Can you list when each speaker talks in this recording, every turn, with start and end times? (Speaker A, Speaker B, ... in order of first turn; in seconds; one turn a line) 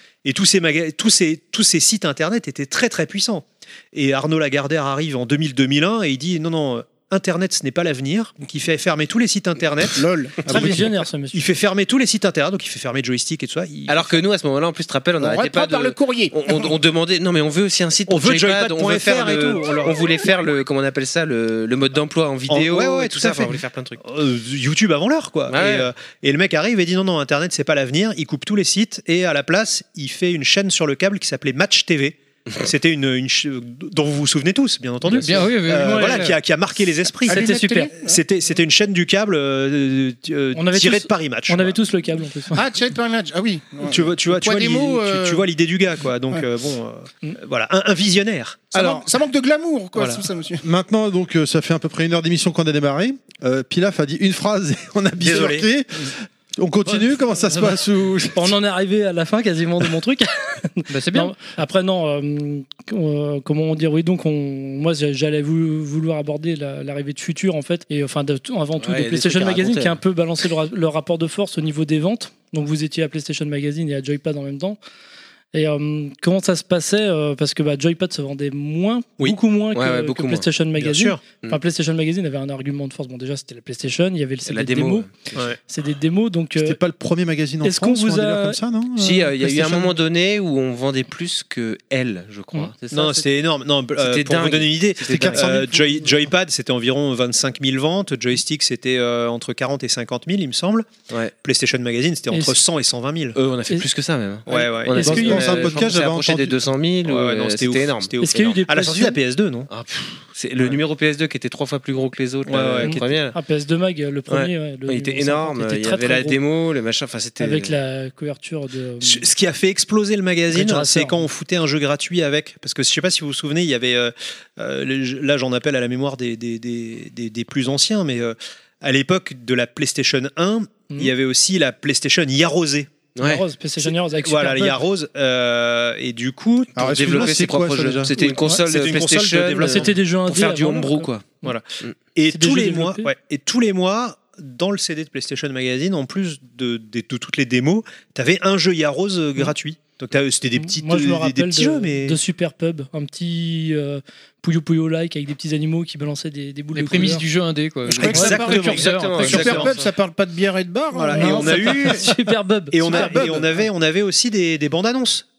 Speaker A: 0.2-14.2
Speaker B: 10.5-11.4
Speaker C: 13.9-24.0
Speaker D: 15.2-16.7
Speaker A: 18.1-20.3
Speaker A: 22.5-41.8
Speaker C: 25.5-25.9
Speaker E: 35.1-36.4
Speaker B: 35.8-36.2
Speaker D: 37.3-38.2
Speaker B: 37.3-37.9
Speaker B: 40.5-42.6
Speaker D: 42.5-45.5
Speaker A: 43.8-48.9
Speaker D: 48.7-50.6
Speaker A: 50.0-50.2
Speaker F: 50.6-58.5
Speaker A: 55.2-55.7
Speaker B: 56.9-57.8
Speaker B: 58.3-74.8
Speaker E: 60.9-61.4
Speaker C: 68.8-70.0
Speaker B: 75.5-85.1
Speaker C: 79.7-80.5
Speaker A: 80.8-81.2
Speaker C: 81.3-81.6
Speaker C: 84.5-85.4
Speaker B: 85.7-86.8
Speaker F: 86.6-89.9
Speaker B: 87.6-88.6
Speaker C: 89.0-93.3
Speaker A: 92.9-100.9
Speaker C: 94.0-95.6
Speaker F: 95.1-95.8
Speaker A: 101.4-103.4
Speaker C: 103.3-108.6
Speaker A: 104.5-105.7
Speaker B: 104.5-105.8
Speaker F: 105.0-106.5
Speaker A: 107.0-109.7
Speaker B: 108.2-109.2
Speaker C: 109.7-113.4
Speaker A: 112.5-113.1
Speaker B: 112.8-116.4
Speaker C: 114.3-117.8
Speaker B: 117.4-119.2
Speaker A: 119.0-132.9
Speaker B: 120.5-121.2
Speaker C: 133.2-133.4
Speaker B: 133.2-134.8
Speaker A: 134.2-137.5
Speaker F: 136.8-138.1
Speaker C: 136.8-142.0
Speaker A: 138.1-139.9
Speaker B: 139.6-141.1
Speaker A: 141.4-152.2
Speaker B: 142.3-143.1
Speaker B: 150.6-157.3
Speaker E: 156.7-159.7
Speaker D: 157.9-162.0
Speaker C: 157.9-159.9
Speaker A: 158.1-159.7
Speaker A: 160.9-162.1
Speaker B: 161.1-163.4
Speaker A: 162.7-165.3